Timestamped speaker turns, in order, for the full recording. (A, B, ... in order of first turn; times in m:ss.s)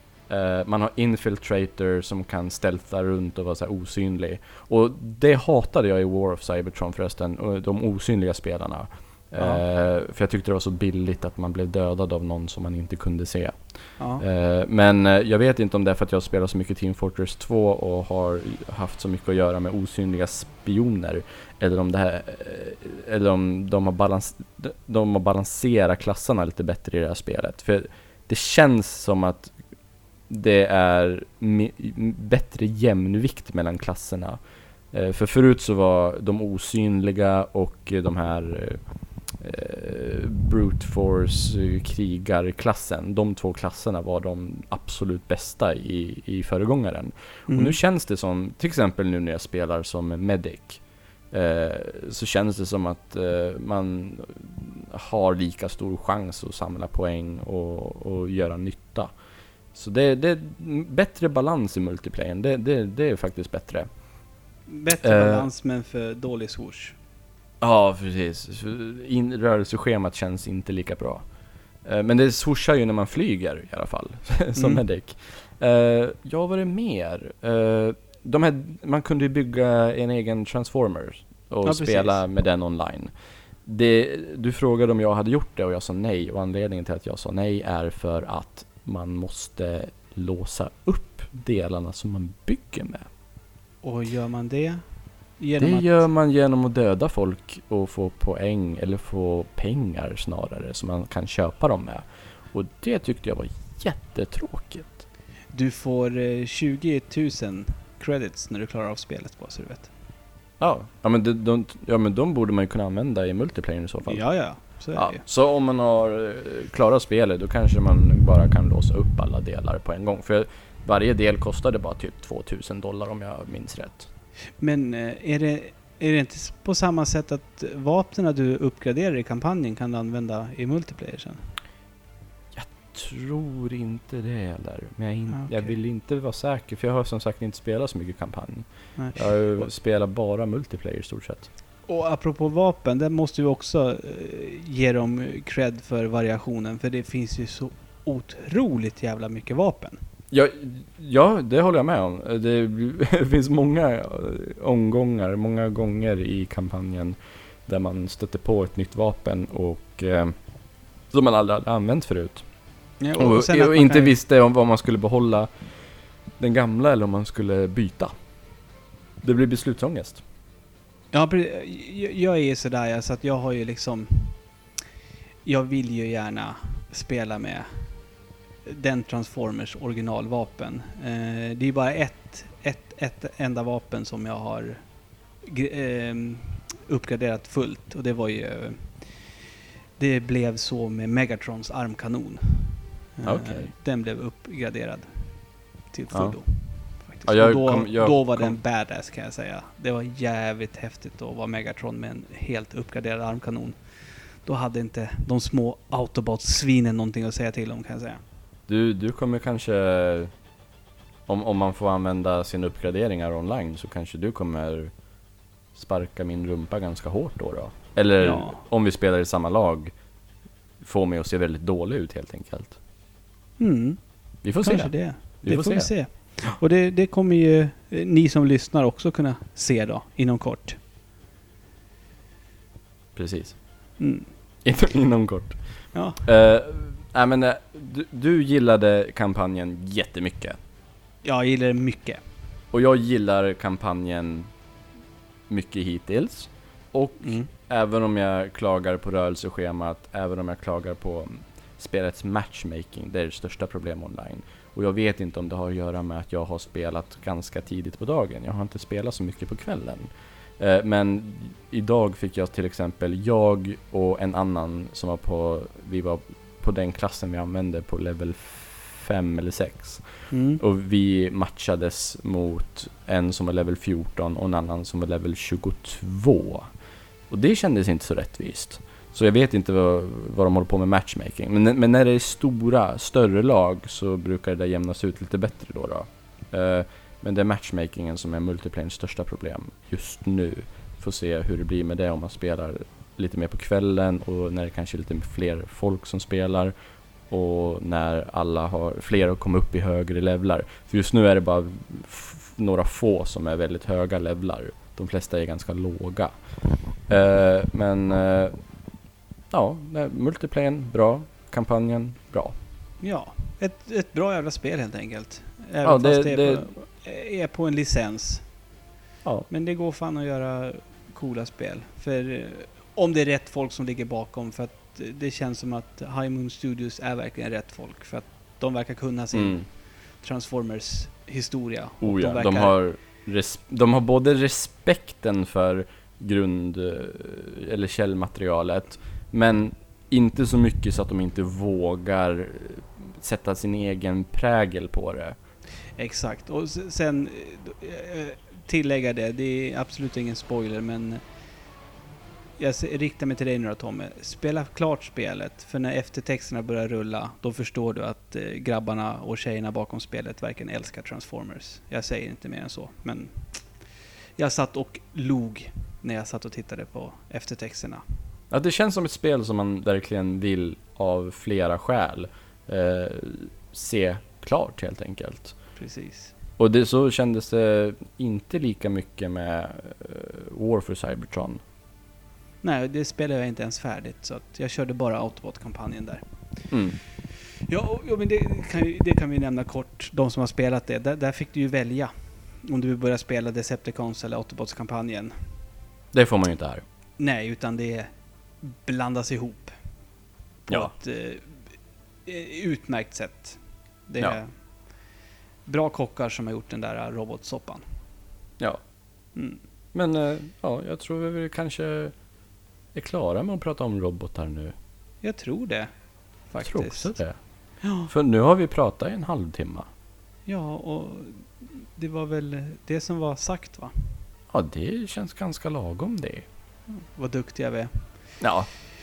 0:00.3-0:29.5 A
0:09.4-0:09.6 B
0:14.0-0:14.2 B
0:30.3-0:59.2 A
0:47.5-0:47.8 B
0:59.7-1:03.9 A
1:04.7-1:07.0 B
1:05.0-1:05.5 A
1:07.6-1:11.2 A
1:11.8-1:33.1 A
1:14.5-1:14.8 B
1:21.6-1:22.2 B
1:33.8-1:34.8 B
1:35.4-1:36.1 B
1:35.6-1:45.0 A
1:45.5-1:49.9 B
1:50.6-2:04.1 A
1:54.1-1:55.2 B
2:04.6-2:11.5 B
2:12.5-2:21.5 A
2:15.3-2:15.8 B
2:19.0-2:19.7 B
2:21.9-2:30.0 B
2:30.3-2:40.3 A
2:41.1-2:42.4 A
2:43.0-2:44.2 B
2:43.2-2:45.6 A
2:46.4-2:48.1 A
2:49.2-2:50.2 A
2:51.1-2:54.4 B
2:55.4-2:57.8 B
2:58.6-3:04.8 B
3:05.4-3:28.2 B
3:13.2-3:13.7 A
3:16.1-3:18.6 A
3:28.7-3:30.3 A
3:31.3-3:34.9 A
3:35.7-3:40.0 A
3:38.2-3:38.6 B
3:40.8-3:42.8 A
3:43.6-3:50.8 B
3:44.4-3:46.5 A
3:53.1-3:53.6 A
3:54.0-3:54.3 B
3:54.6-4:00.6 A
3:55.9-3:56.2 B
4:01.2-4:02.2 B
4:02.7-4:04.5 A
4:05.5-4:36.7 A
4:07.2-4:07.5 B
4:30.3-4:30.6 B
4:37.3-4:56.7 A
4:57.3-5:06.4 A
5:07.0-5:08.6 A
5:09.5-5:12.6 A
5:13.0-5:18.4 B
5:15.8-5:16.7 A
5:19.5-5:32.8 B
5:29.3-5:29.7 A
5:32.0-5:45.4 A
5:46.0-5:51.2 B
5:52.6-6:08.0 B
6:08.5-6:15.6 A
6:15.8-6:16.3 B
6:16.6-6:21.6 A
6:22.6-6:26.2 B
6:26.7-6:27.0 A
6:27.2-6:35.3 B
6:36.1-6:36.8 A
6:37.2-6:38.1 B
6:38.6-6:39.7 B
6:40.7-6:40.9 A
6:40.7-6:41.5 B
6:42.2-6:44.5 B
6:45.6-6:47.8 B
6:49.3-6:49.6 B
6:49.9-6:52.1 A
6:52.9-6:54.7 A
6:55.2-6:55.9 B
6:56.5-6:57.2 B
6:56.6-6:57.4 A
6:57.8-6:58.1 B
6:58.1-6:59.9 A
7:00.5-7:03.9 B
7:04.5-7:06.4 A
7:07.0-7:08.0 B
7:08.4-7:08.7 A